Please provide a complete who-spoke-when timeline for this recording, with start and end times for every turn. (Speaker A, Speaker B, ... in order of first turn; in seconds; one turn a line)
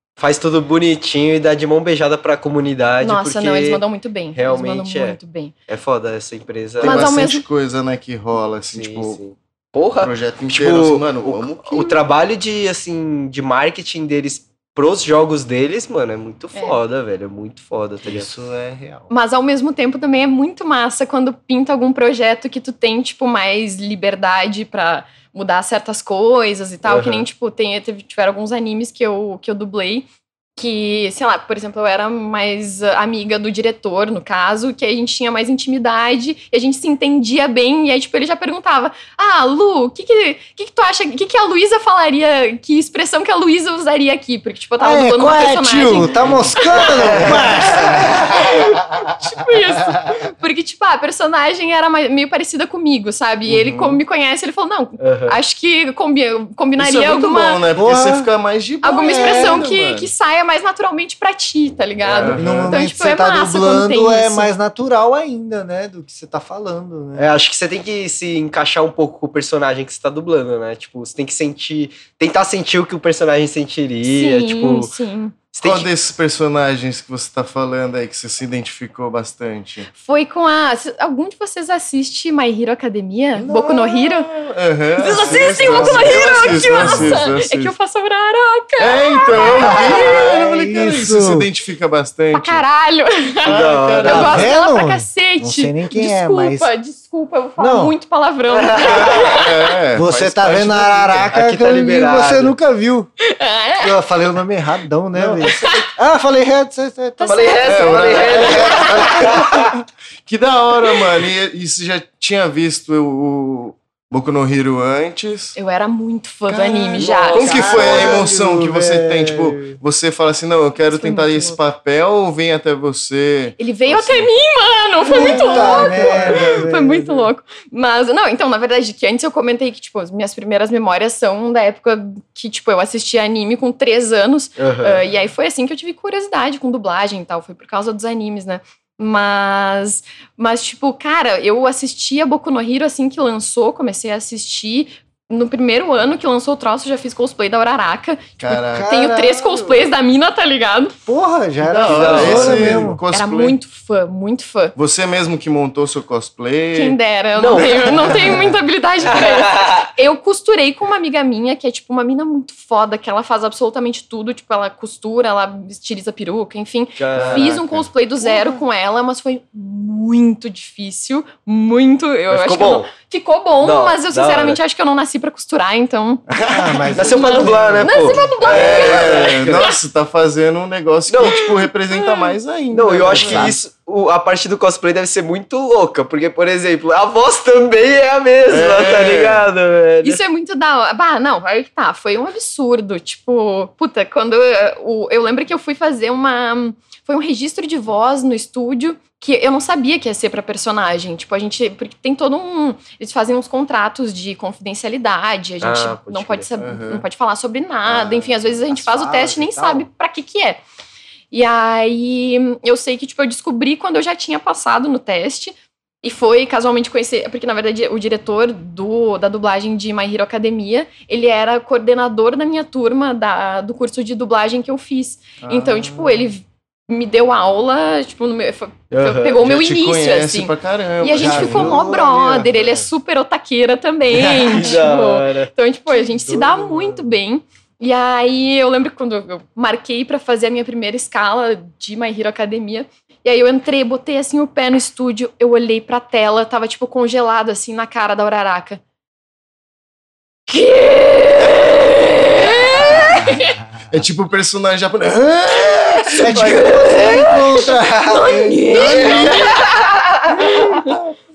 Speaker A: 0.2-3.8
Speaker B: 3.0-5.5
Speaker A: 4.3-7.1
Speaker B: 6.8-7.4
Speaker C: 6.8-9.2
Speaker A: 8.7-18.3
Speaker C: 10.0-11.9
Speaker D: 18.1-19.1
Speaker B: 19.1-47.4
Speaker A: 26.9-27.3
Speaker D: 44.8-49.3
Speaker A: 46.9-48.4
Speaker B: 48.2-57.6
Speaker C: 53.5-54.0
Speaker A: 55.0-55.4
Speaker C: 56.8-60.1
Speaker D: 57.7-58.3
Speaker B: 58.8-64.5
Speaker D: 59.0-59.6
Speaker A: 62.0-62.4
Speaker C: 62.2-62.8
Speaker D: 62.4-67.3
Speaker A: 67.2-74.9
Speaker B: 74.0-75.4
Speaker A: 75.5-75.9
Speaker C: 75.6-79.9
Speaker B: 80.0-84.3
Speaker C: 83.4-87.7
Speaker B: 85.0-90.2
Speaker D: 85.2-87.2
Speaker C: 88.8-92.6
Speaker D: 89.9-91.5
Speaker B: 92.3-99.7
Speaker A: 93.5-94.5
Speaker C: 93.5-94.5
Speaker D: 94.0-96.7
Speaker D: 97.6-98.0
Speaker A: 98.5-99.4
Speaker C: 98.8-101.3
Speaker D: 99.9-103.1
Speaker A: 101.3-102.5
Speaker B: 103.2-103.9
Speaker D: 103.8-107.5
Speaker C: 105.2-105.5
Speaker B: 105.6-105.9
Speaker B: 107.2-109.1
Speaker A: 107.3-109.7
Speaker C: 107.7-115.6
Speaker B: 115.6-118.0
Speaker C: 116.5-124.3
Speaker A: 117.0-118.0
Speaker D: 117.1-119.8
Speaker B: 120.9-121.6
Speaker B: 123.6-150.9
Speaker D: 125.0-127.3
Speaker C: 125.1-126.2
Speaker A: 134.6-135.0
Speaker C: 148.4-148.9
Speaker D: 148.7-149.9
Speaker D: 151.1-153.0
Speaker C: 151.6-153.6
Speaker A: 151.8-152.9
Speaker B: 153.1-154.8
Speaker C: 154.8-157.0
Speaker B: 156.7-176.2
Speaker A: 157.4-158.5
Speaker C: 158.0-158.4
Speaker A: 159.0-159.9
Speaker A: 167.0-167.5
Speaker C: 167.2-168.6
Speaker A: 172.3-172.9
Speaker A: 173.6-174.6
Speaker C: 176.3-176.8
Speaker D: 176.4-178.0
Speaker A: 176.9-179.7
Speaker B: 177.1-179.7
Speaker C: 178.5-183.6
Speaker A: 181.1-181.4
Speaker B: 181.2-182.4
Speaker A: 182.7-190.2
Speaker D: 183.1-183.6
Speaker C: 188.5-189.4
Speaker B: 190.0-210.6
Speaker A: 205.6-206.5
Speaker C: 206.6-207.1
Speaker C: 207.9-208.3
Speaker D: 208.7-209.9
Speaker B: 211.3-248.8
Speaker C: 225.4-226.1
Speaker A: 228.9-229.4
Speaker C: 229.4-231.8
Speaker D: 231.1-232.9
Speaker A: 234.5-235.5
Speaker D: 236.1-237.1
Speaker B: 250.5-253.6
Speaker C: 251.4-251.9
Speaker C: 252.9-253.3
Speaker C: 253.9-256.7
Speaker D: 256.2-259.2
Speaker A: 256.2-257.4
Speaker B: 256.8-257.4
Speaker B: 258.1-259.6
Speaker C: 258.6-259.7
Speaker A: 259.2-260.3
Speaker B: 260.4-261.0